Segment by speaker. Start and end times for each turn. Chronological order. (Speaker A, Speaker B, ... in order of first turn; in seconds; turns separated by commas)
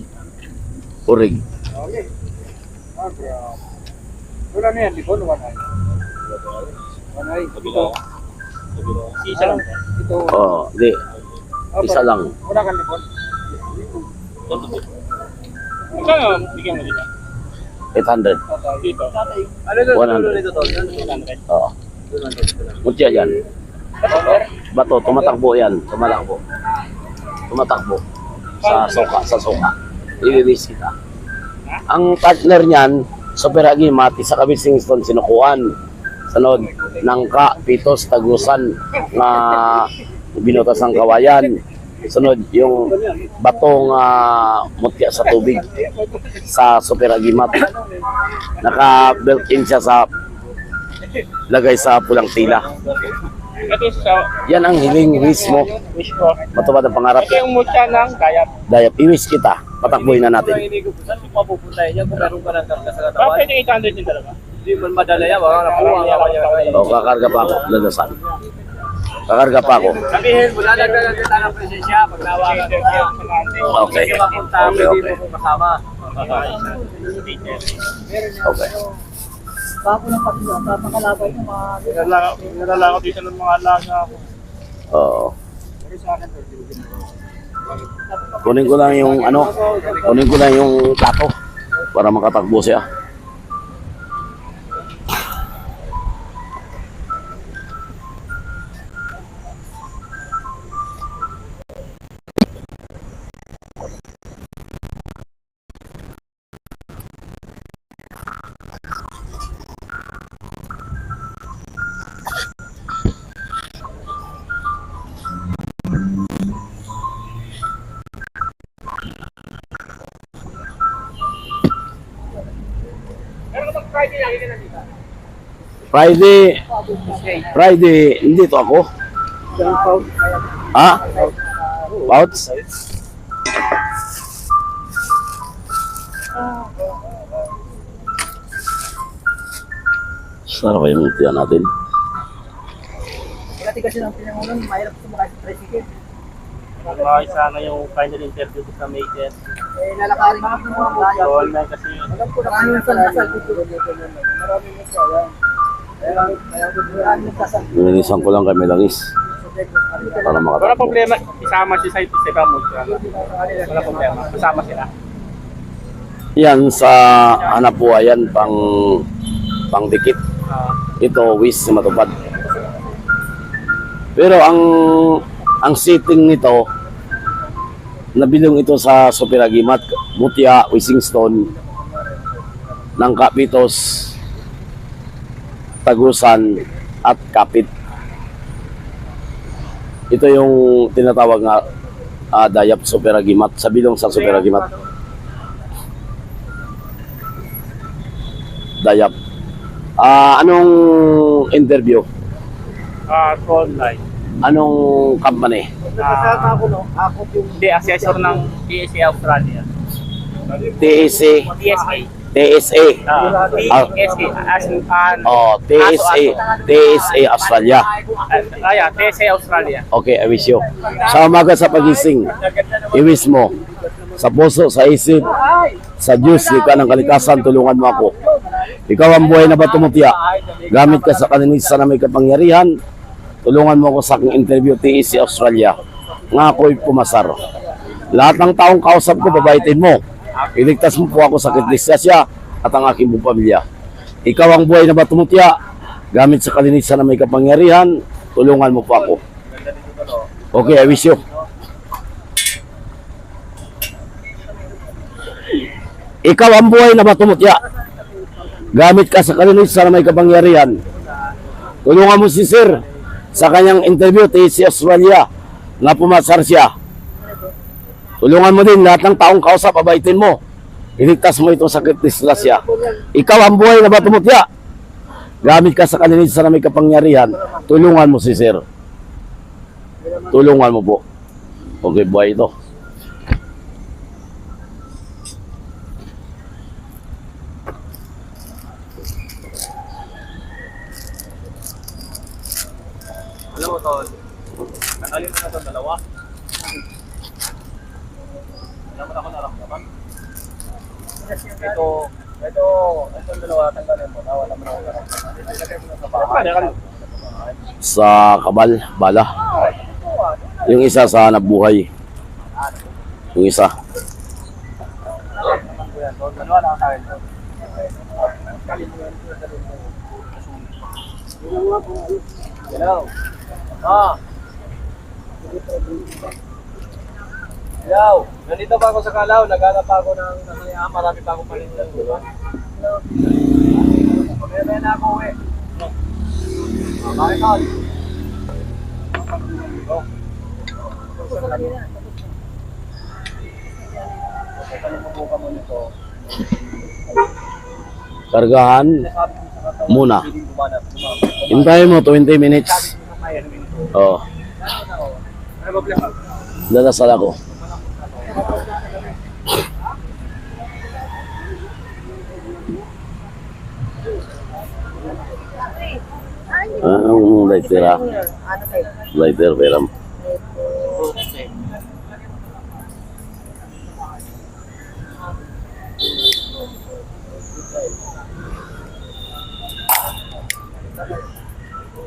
Speaker A: 1.1-1.4, Speaker B: 4.5-5.5, Speaker B: 7.2-7.7, Speaker C: 7.6-7.9, Speaker C: 9.1-9.8, Speaker A: 10.2-11.0, Speaker A: 11.8-12.3, Speaker C: 15.9-17.1, Speaker A: 17.9-18.4, Speaker C: 18.8-19.2, Speaker B: 19.6-21.2, Speaker A: 19.9-20.5, Speaker B: 22.1-22.8, Speaker A: 22.8-23.4, Speaker C: 24.0-24.5, Speaker A: 24.6-26.4, Speaker A: 27.5-28.0, Speaker A: 28.6-30.9, Speaker C: 28.6-29.1, Speaker A: 31.9-35.7, Speaker A: 36.3-45.6, Speaker A: 46.5-47.7, Speaker A: 48.6-50.1, Speaker A: 51.5-52.7, Speaker B: 52.6-53.0, Speaker C: 53.6-54.4, Speaker A: 54.5-55.8, Speaker C: 55.8-56.5, Speaker A: 56.5-57.4, Speaker C: 57.2-58.5, Speaker A: 58.7-60.6, Speaker B: 59.8-63.5, Speaker C: 63.2-64.4, Speaker B: 64.6-67.0, Speaker C: 65.5-67.0, Speaker A: 66.7-68.2, Speaker A: 69.3-70.0, Speaker B: 70.0-73.1, Speaker C: 70.2-70.6, Speaker C: 72.4-74.8, Speaker A: 73.6-75.1, Speaker B: 73.8-76.5, Speaker C: 76.1-77.7, Speaker A: 78.4-78.7, Speaker D: 79.8-82.1, Speaker C: 81.9-84.2, Speaker A: 84.9-85.3, Speaker B: 85.8-86.9, Speaker A: 88.4-89.5, Speaker B: 89.4-89.9, Speaker A: 90.0-91.3, Speaker A: 91.9-92.8, Speaker C: 123.7-124.6, Speaker A: 125.9-126.6, Speaker A: 127.5-128.9, Speaker A: 130.7-131.0, Speaker A: 132.1-132.5, Speaker A: 140.5-141.7, Speaker D: 143.6-145.9, Speaker C: 146.8-149.3, Speaker D: 149.8-151.5, Speaker C: 151.1-152.1, Speaker D: 152.3-153.7, Speaker B: 154.3-155.0, Speaker B: 156.3-156.6, Speaker D: 156.9-157.8, Speaker A: 157.7-159.1, Speaker D: 159.9-160.2, Speaker A: 160.2-161.0, Speaker C: 160.6-164.9, Speaker A: 166.4-169.1, Speaker A: 169.7-170.2, Speaker A: 171.0-172.1, Speaker A: 174.2-176.7, Speaker A: 178.2-181.5, Speaker B: 181.8-182.4, Speaker A: 183.0-184.1, Speaker A: 185.8-187.7, Speaker A: 190.1-191.6, Speaker A: 192.3-194.7, Speaker C: 194.2-194.6, Speaker A: 198.8-199.1, Speaker A: 200.0-202.1, Speaker C: 203.1-204.0, Speaker A: 204.4-205.7, Speaker C: 206.0-206.6, Speaker B: 206.6-207.3, Speaker C: 207.5-209.7, Speaker A: 210.8-211.5, Speaker C: 211.5-212.1, Speaker A: 212.3-213.0, Speaker C: 213.1-216.6, Speaker A: 215.2-217.9, Speaker C: 218.3-219.9, Speaker A: 219.9-222.3, Speaker A: 222.9-223.5, Speaker A: 224.2-225.3, Speaker A: 226.0-228.1, Speaker A: 228.9-230.2, Speaker B: 229.3-231.5, Speaker A: 230.7-232.8, Speaker A: 233.4-235.8, Speaker A: 236.3-237.4, Speaker A: 238.1-240.0, Speaker A: 240.5-243.6, Speaker A: 244.2-245.6, Speaker A: 246.1-249.2, Speaker B: 249.3-250.3, Speaker A: 250.5-251.2, Speaker A: 256.2-257.6, Speaker A: 258.7-260.8, Speaker A: 261.9-262.8, Speaker A: 263.3-265.3, Speaker A: 265.8-266.7, Speaker A: 268.2-270.4, Speaker A: 271.0-274.5, Speaker A: 275.4-278.6, Speaker A: 280.3-281.0, Speaker A: 281.8-282.5, Speaker B: 293.5-294.2, Speaker B: 295.0-296.0, Speaker B: 298.9-299.9, Speaker B: 301.6-307.5, Speaker C: 306.2-306.7, Speaker A: 307.8-309.3, Speaker B: 309.5-310.7, Speaker A: 310.7-311.9, Speaker A: 313.4-313.7, Speaker B: 315.4-317.2, Speaker B: 318.7-319.3, Speaker B: 322.7-323.1, Speaker B: 323.8-324.2, Speaker B: 327.8-332.3, Speaker B: 334.1-335.4, Speaker B: 337.0-337.8, Speaker B: 339.5-340.0, Speaker D: 341.6-341.9, Speaker B: 344.6-345.9, Speaker A: 348.3-349.1, Speaker B: 349.0-352.0, Speaker A: 349.9-350.3, Speaker A: 351.5-352.9, Speaker B: 352.6-353.9, Speaker A: 353.9-354.2, Speaker B: 354.6-356.2, Speaker A: 356.7-357.4, Speaker B: 357.5-358.6, Speaker D: 366.6-366.9, Speaker A: 366.8-368.0, Speaker D: 367.5-368.9, Speaker A: 369.1-369.9